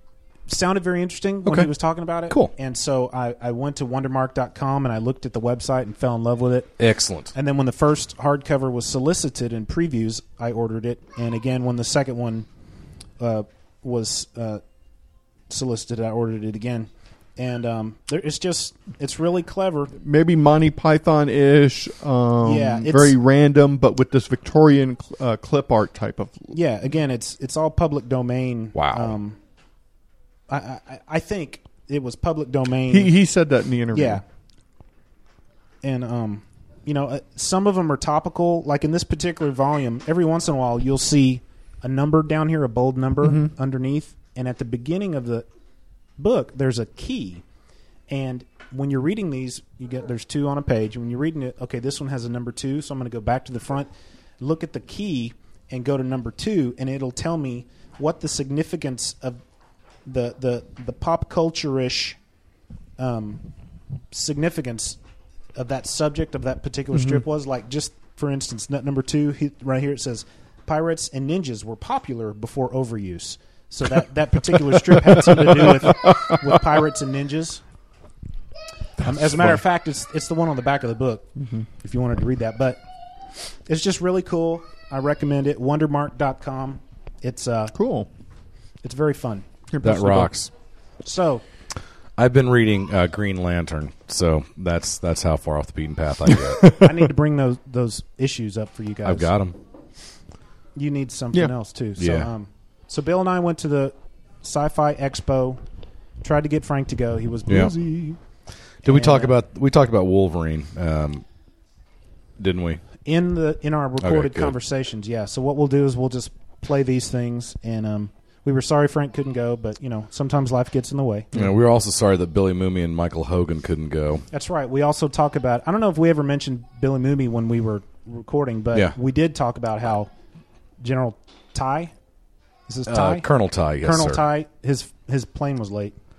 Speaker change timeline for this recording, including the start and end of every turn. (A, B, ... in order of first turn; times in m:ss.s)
0:00.5-0:06.7 A
0:01.4-0:01.7 B
0:06.8-0:07.3 B
0:07.3-0:12.5 A
0:13.2-0:14.6 A
0:15.5-0:19.9 A
0:20.0-0:26.6 C
0:22.4-0:23.2 A
0:26.5-0:29.4 A
0:28.8-0:29.1 B
0:30.5-0:33.1 A
0:32.9-0:34.2 C
0:33.9-0:34.2 A
0:35.8-0:45.5 A
0:43.2-0:43.5 C
0:46.2-0:47.4 A
0:48.1-0:59.4 A
1:00.1-1:02.2 A
1:03.0-1:03.4 A
1:04.1-1:05.0 A
1:05.6-1:17.6 A
1:06.9-1:07.2 C
1:14.5-1:16.6 C
1:19.0-1:19.4 C
1:19.0-1:21.3 A
1:21.4-1:21.7 C
1:21.8-1:22.8 A
1:23.7-1:27.8 A
1:27.7-1:28.1 C
1:28.8-1:29.5 A
1:29.7-1:30.3 C
1:29.8-1:30.5 B
1:31.0-1:31.4 A
1:32.2-1:36.7 B
1:36.6-1:36.9 C
1:36.8-1:39.3 A
1:39.0-1:39.6 B
1:40.8-1:45.6 A
1:42.0-1:42.3 B
1:46.2-1:48.2 A
1:47.5-1:47.7 B
1:48.8-1:49.4 A
1:48.8-1:51.2 B
1:52.4-1:52.8 B
1:53.0-2:01.4 A
1:54.0-1:54.5 B
2:01.3-2:04.2 B
2:04.3-2:10.1 A
2:10.8-2:11.9 A
2:12.7-2:13.3 A
2:12.9-2:14.2 B
2:13.8-2:16.0 A